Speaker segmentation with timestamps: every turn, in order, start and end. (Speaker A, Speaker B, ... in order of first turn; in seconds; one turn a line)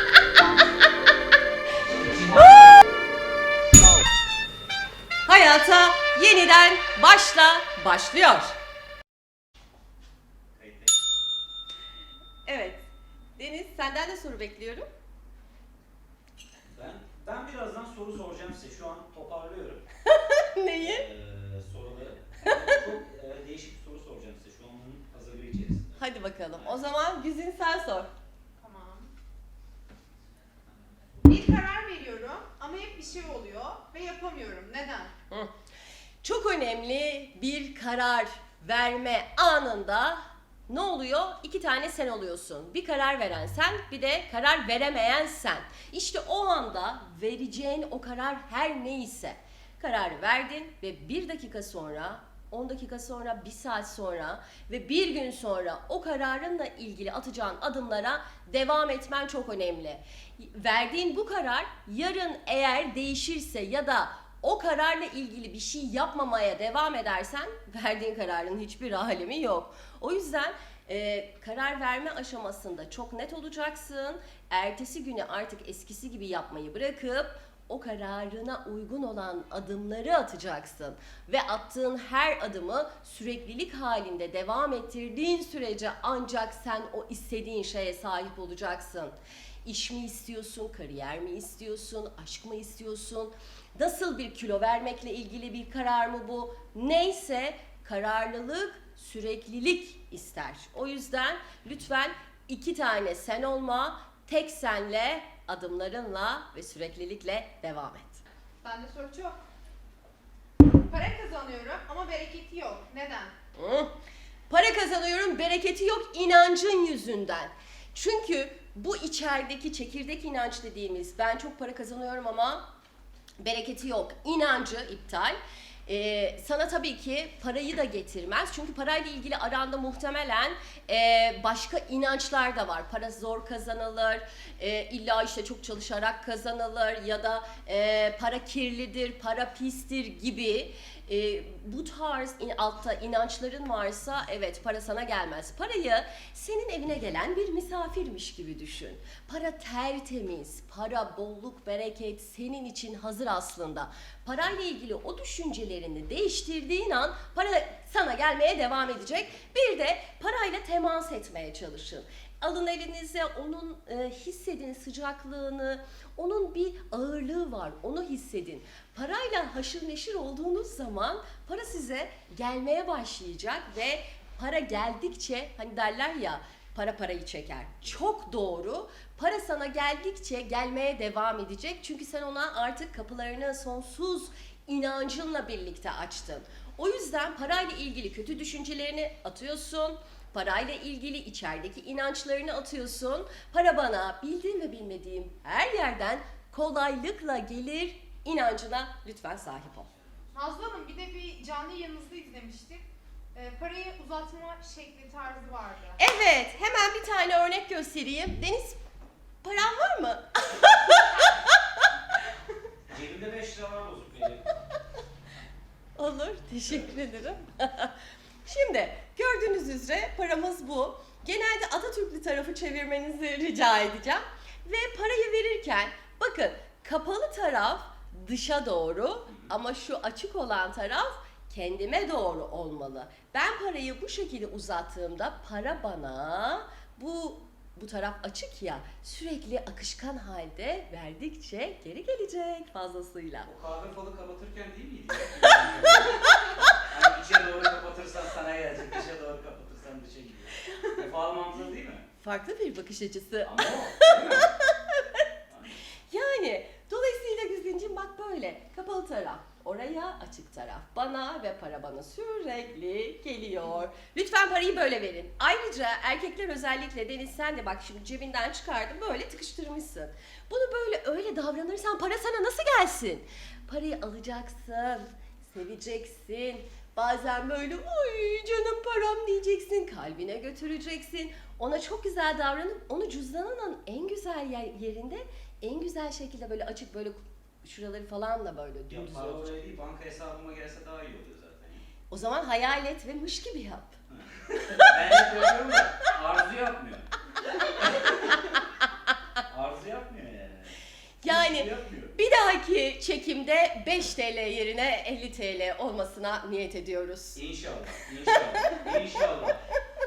Speaker A: 2.1-2.5
Speaker B: 2.3-2.8
Speaker B: 5.2-8.5
Speaker A: 10.6-11.0
Speaker B: 12.4-12.8
Speaker B: 13.4-14.9
Speaker A: 16.7-19.9
Speaker B: 20.1-21.0
Speaker A: 20.8-26.0
Speaker B: 22.4-22.8
Speaker B: 26.0-28.1
Speaker A: 26.5-26.8
Speaker C: 28.6-29.1
Speaker C: 31.2-35.1
Speaker B: 36.2-108.2
Speaker C: 108.6-109.4
Speaker C: 110.7-113.3
Speaker B: 113.5-113.9
Speaker B: 114.5-122.7
Speaker B: 123.4-199.9
Speaker C: 200.3-206.0
Speaker B: 206.0-208.8
Speaker B: 209.4-211.8
Speaker A: 212.9-214.4
Speaker B: 216.0-243.5
Speaker A: 243.4-246.3
Speaker A: 246.8-252.0
Speaker B: 252.2-255.2
Speaker A: 253.4-254.5
Speaker A: 255.5-255.8
Speaker B: 256.1-289.6
Speaker A: 288.9-291.9
Speaker B: 292.1-293.9
Speaker A: 294.1-297.1
Speaker A: 297.7-298.6
Speaker A: 299.5-302.1
Speaker B: 301.2-307.4
Speaker A: 307.3-309.6
Speaker B: 308.3-308.8